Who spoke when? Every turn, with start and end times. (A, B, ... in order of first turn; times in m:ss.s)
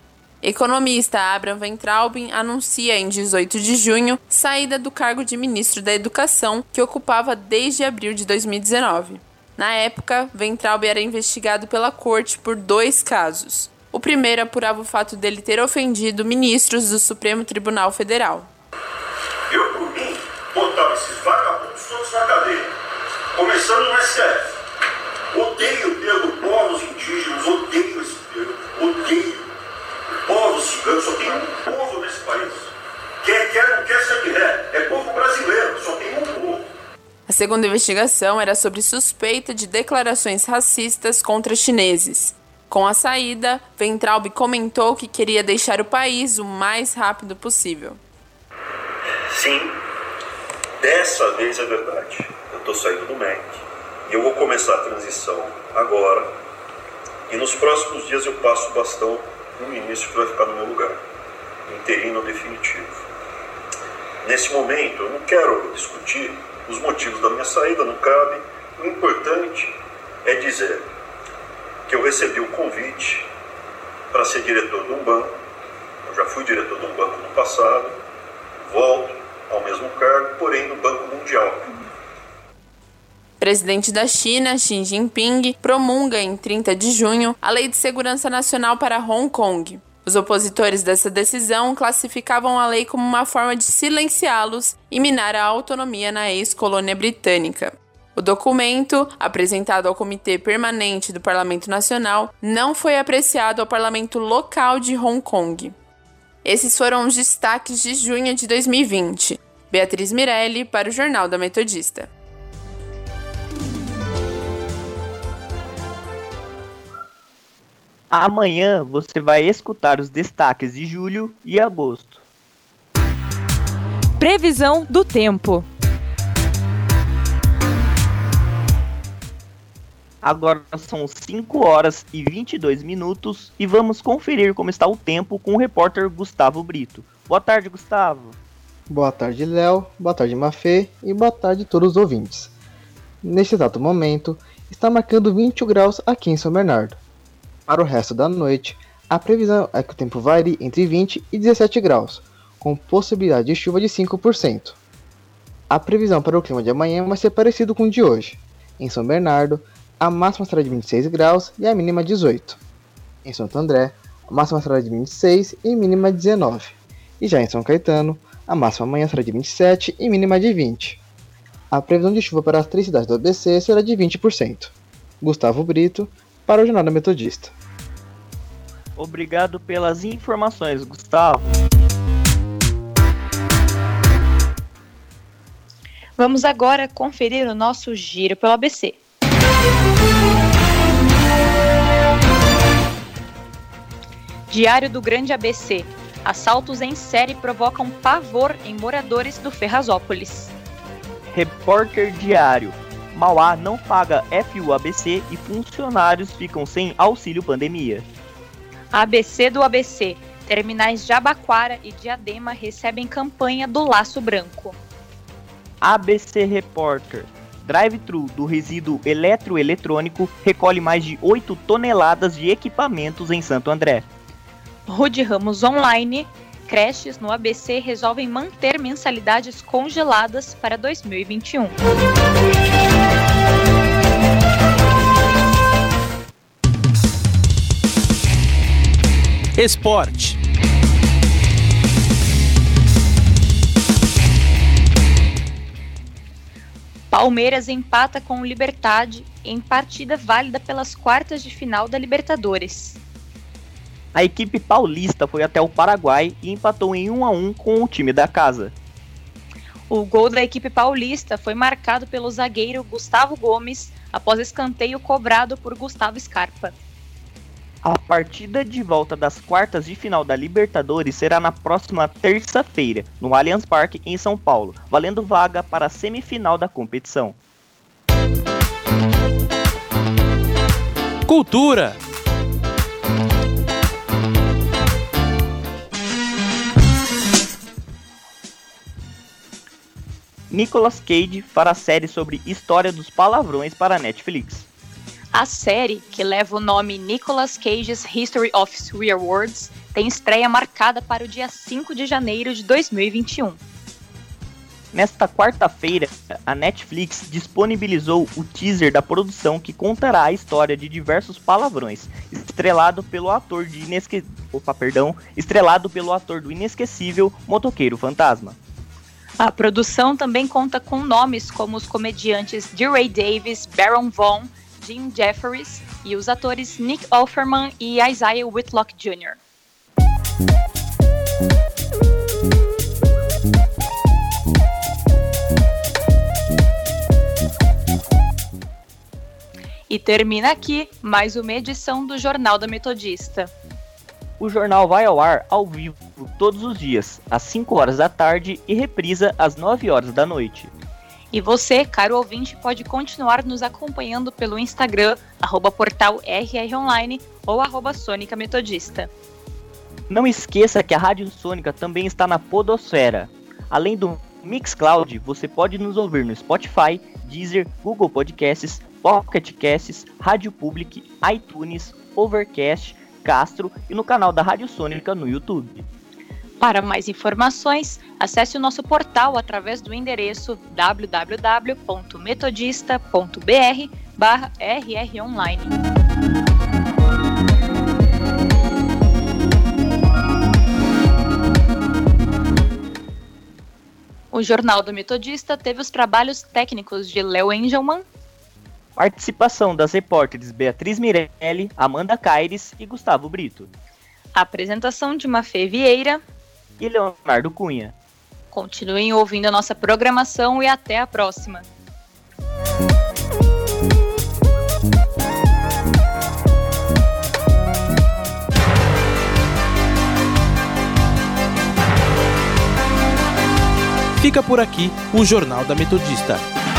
0:00.4-0:18.5 A
0:19.5-0:22.7 B
0:23.3-0:24.5 B
0:25.3-0:29.5 B
0:30.2-0:36.7 B
0:37.3-0:48.0 A
0:49.3-0:49.8 B
0:50.8-0:56.3 B
0:57.3-1:01.0 B
1:01.7-1:03.0 B
1:04.2-1:10.8 B
1:11.9-1:13.3 B
1:14.1-1:15.3 B
1:16.0-1:18.0 B
1:18.6-1:21.8 B
1:23.4-1:45.7 A
1:46.4-1:52.1 A
1:58.1-2:02.2 C
2:04.2-2:05.7 D
2:10.2-2:18.4 C
2:18.9-2:22.5 E
2:23.2-2:27.0 E
2:27.7-2:34.8 E
2:35.7-2:42.6 E
2:43.2-2:51.0 E
2:51.7-2:57.5 E
2:59.0-3:01.4 C
3:06.2-3:09.0 D
3:14.5-3:20.5 D
3:21.3-3:28.0 C
3:28.9-3:34.8 D
3:35.8-3:44.0 C
3:44.8-3:51.8 D
3:59.6-4:00.4 F
4:07.1-4:13.0 D
4:14.1-4:18.7 C
4:19.9-4:26.7 D
4:27.8-4:37.4 C
4:41.2-4:42.0 F
4:50.5-4:54.7 C
4:55.3-5:03.6 D
5:04.9-5:18.6 C
5:19.4-5:29.4 D
5:39.9-5:43.5 D
5:44.4-5:50.7 C
5:51.3-5:59.1 D
6:00.1-6:15.8 C
6:16.6-6:25.7 D
6:34.3-6:38.0 D
6:39.0-6:43.7 C
6:44.3-6:46.2 D
6:46.8-6:47.9 C
6:48.5-6:51.6 D
7:04.2-7:06.4 F